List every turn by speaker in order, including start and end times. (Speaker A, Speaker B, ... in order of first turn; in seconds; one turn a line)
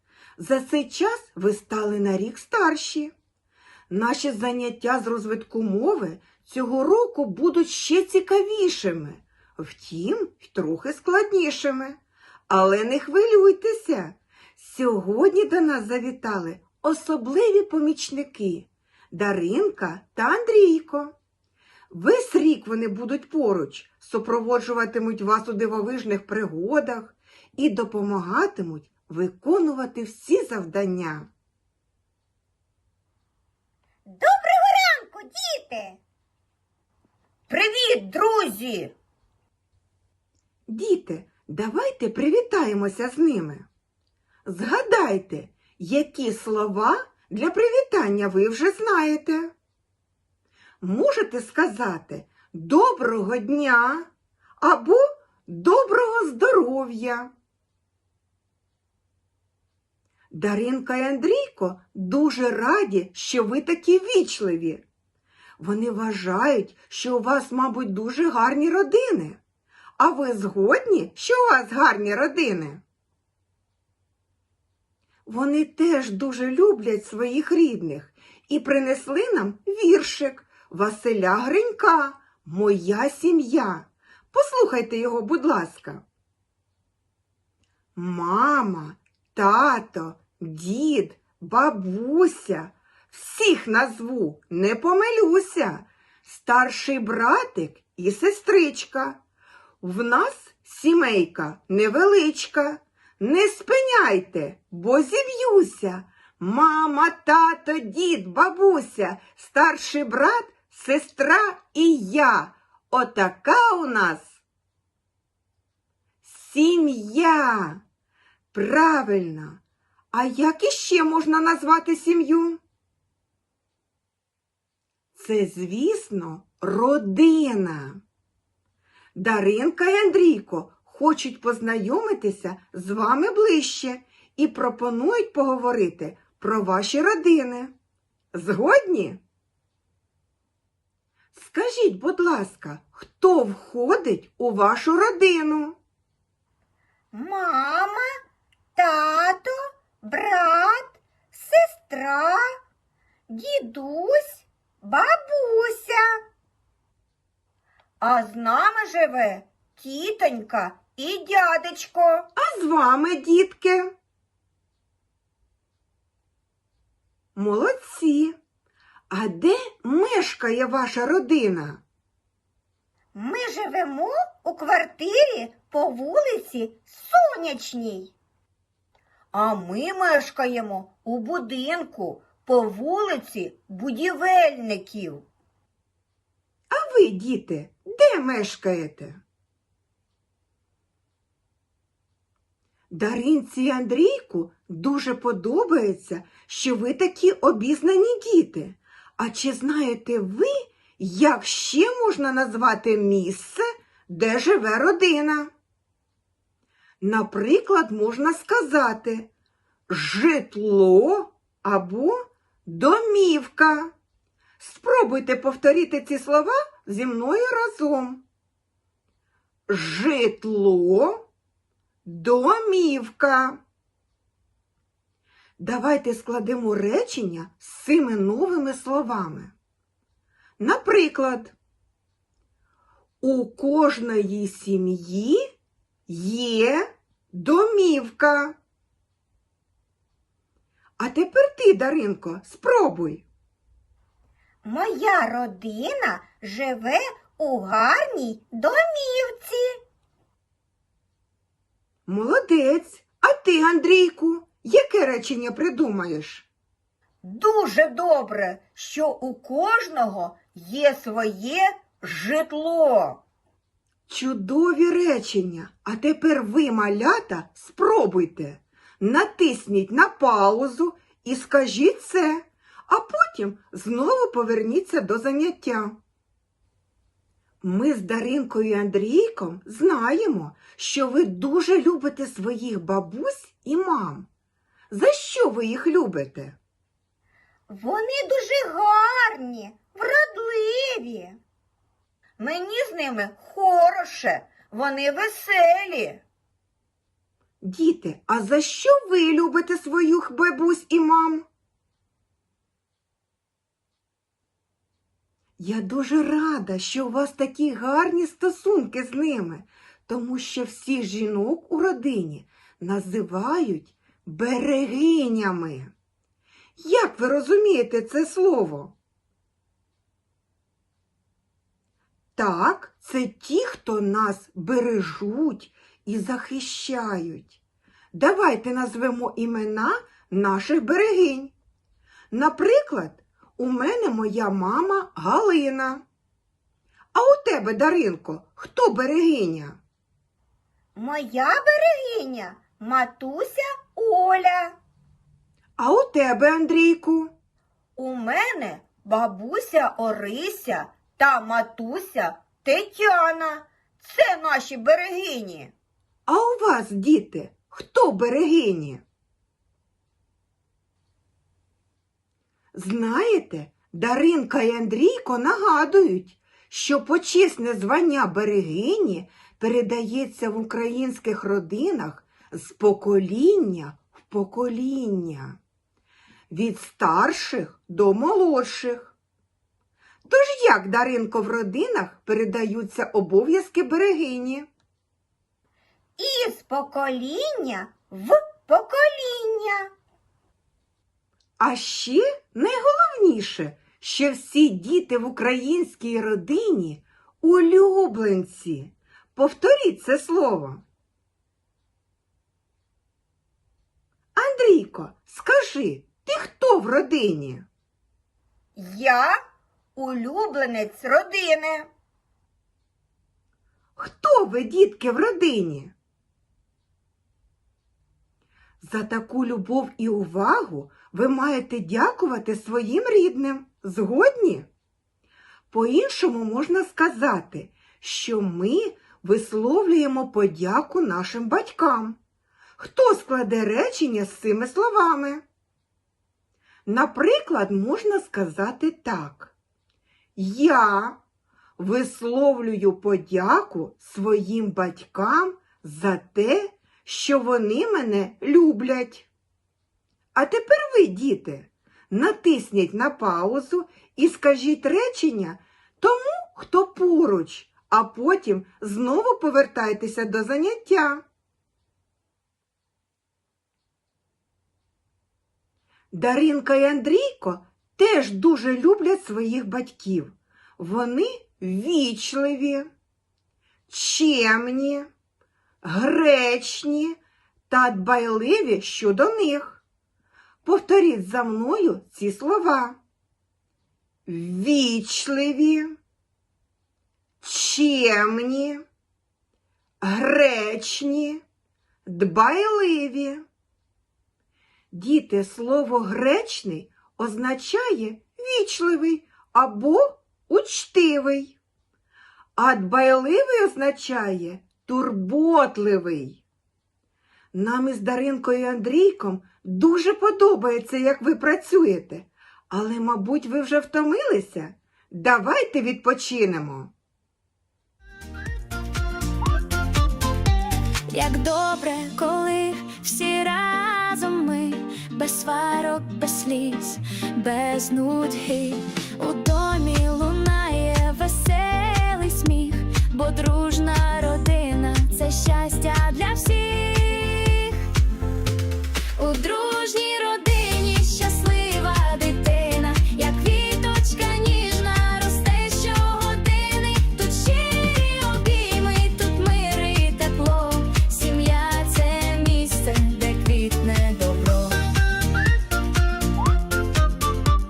Speaker A: 0.4-3.1
Speaker A: 3.9-21.1
Speaker A: 21.9-31.3
Speaker B: 34.1-36.0
Speaker B: 37.5-38.9
Speaker A: 40.7-43.6
Speaker A: 44.5-49.5
Speaker A: 50.8-54.1
Speaker A: 54.6-57.3
Speaker A: 60.3-64.8
Speaker A: 65.6-69.4
Speaker A: 70.0-72.8
Speaker A: 75.3-86.0
Speaker A: 87.9-99.2
Speaker A: 99.8-114.4
Speaker A: 116.2-117.8
Speaker A: 118.5-119.6
Speaker A: 120.1-122.6
Speaker A: 125.1-128.0
Speaker A: 129.1-137.7
Speaker A: 138.3-139.2
Speaker A: 141.3-145.8
Speaker B: 147.1-148.1
Speaker B: 148.8-152.4
Speaker B: 153.3-156.0
Speaker B: 158.0-162.3
Speaker A: 162.3-163.9
Speaker A: 167.3-168.3
Speaker A: 169.1-171.8
Speaker B: 173.1-178.1
Speaker B: 179.3-185.2
Speaker A: 186.7-189.2
Speaker A: 192.9-205.5
Speaker A: 207.0-209.3
Speaker A: 209.9-213.9
Speaker A: 214.6-218.2
Speaker A: 219.7-221.2
Speaker A: 222.0-223.6
Speaker A: 225.6-229.5
Speaker A: 230.6-231.5
Speaker A: 233.2-235.4
Speaker A: 236.1-238.6
Speaker A: 241.0-243.2
Speaker B: 244.6-249.7
Speaker A: 252.1-256.5
Speaker B: 257.2-263.2
Speaker A: 264.1-275.9
Speaker A: 277.6-284.3
Speaker A: 284.9-286.6
Speaker B: 287.7-291.4
Speaker B: 292.4-296.2
Speaker A: 297.6-301.4
Speaker A: 305.6-315.9
Speaker A: 316.8-318.9
Speaker A: 322.3-327.6
Speaker A: 328.1-331.5
Speaker A: 332.3-336.0
Speaker A: 337.1-339.8
Speaker B: 340.9-344.7
Speaker A: 345.8-347.3
Speaker B: 348.0-355.7
Speaker A: 356.3-359.0
Speaker A: 362.7-375.6
Speaker A: 376.5-379.1
Speaker A: 380.3-384.7
Speaker B: 386.2-389.9
Speaker A: 391.6-400.8
Speaker A: 404.3-407.7
Speaker B: 408.8-409.4
Speaker B: 409.9-411.9
Speaker A: 414.0-415.9
Speaker A: 418.8-424.7
Speaker A: 425.7-432.2
Speaker A: 432.8-435.4
Speaker A: 436.9-439.5
Speaker A: 440.4-441.2
Speaker A: 441.8-449.3
Speaker A: 450.3-461.2
Speaker A: 466.1-472.9
Speaker A: 473.9-475.1
Speaker A: 475.8-477.1
Speaker A: 477.7-479.8
Speaker A: 480.6-483.0
Speaker A: 484.3-486.0
Speaker A: 487.4-488.8
Speaker A: 490.0-491.4
Speaker A: 492.1-493.4
Speaker A: 494.9-501.6
Speaker A: 502.6-506.4
Speaker A: 507.5-516.9
Speaker C: 521.1-537.9
Speaker C: 539.1-554.8